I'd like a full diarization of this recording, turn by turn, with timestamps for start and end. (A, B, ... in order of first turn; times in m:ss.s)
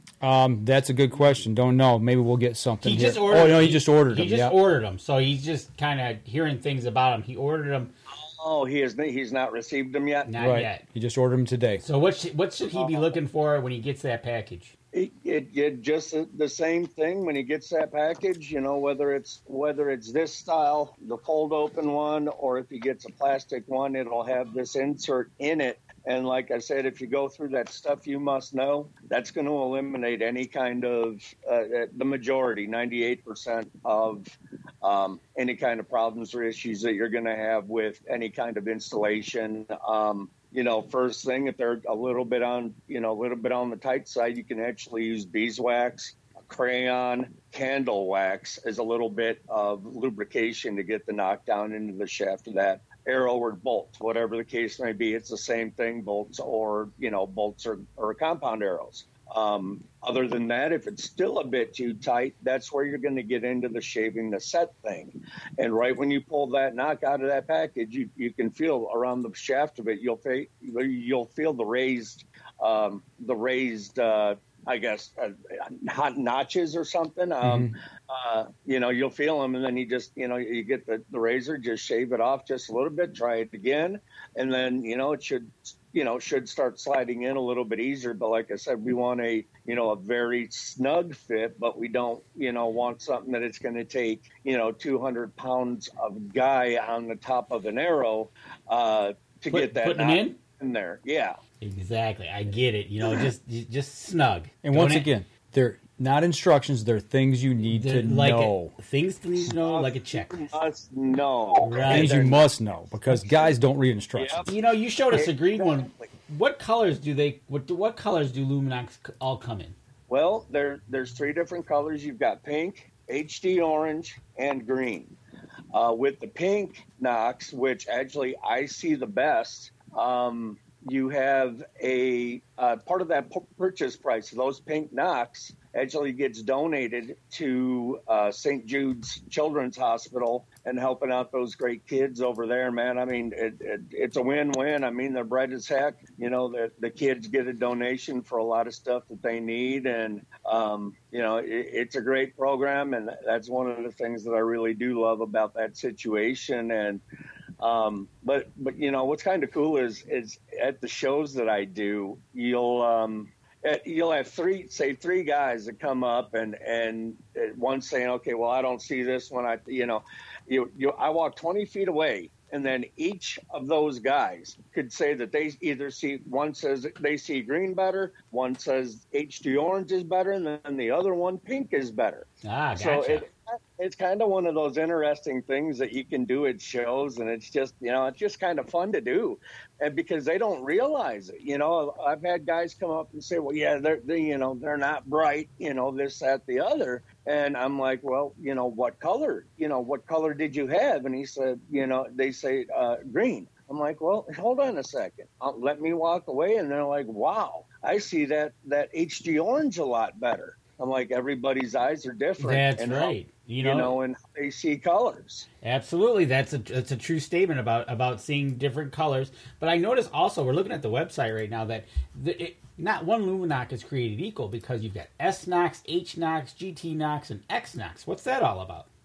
0:00.2-0:04.6 A
0:02.8-0:07.9 B
0:08.1-0:10.3 C
0:10.3-0:10.8 B
0:10.4-0:11.8 A
0:11.8-0:14.8 B
0:12.7-0:13.2 C
0:14.9-1:41.4 C
1:17.4-1:17.7 A
1:39.5-1:40.4 B
1:41.6-1:45.1 B
1:44.6-1:48.8 A
1:47.6-1:50.5 B
1:49.5-1:52.5 C
1:51.6-1:52.1 B
1:51.9-1:54.5 A
1:53.1-1:53.5 C
1:54.2-1:54.5 C
1:54.5-1:59.8 B
1:55.1-1:56.1 C
2:00.1-2:05.2 C
2:05.7-2:37.0 C
2:37.6-3:35.5 C
3:02.4-3:03.2 B
3:32.4-3:33.9 B
3:35.6-3:48.9 B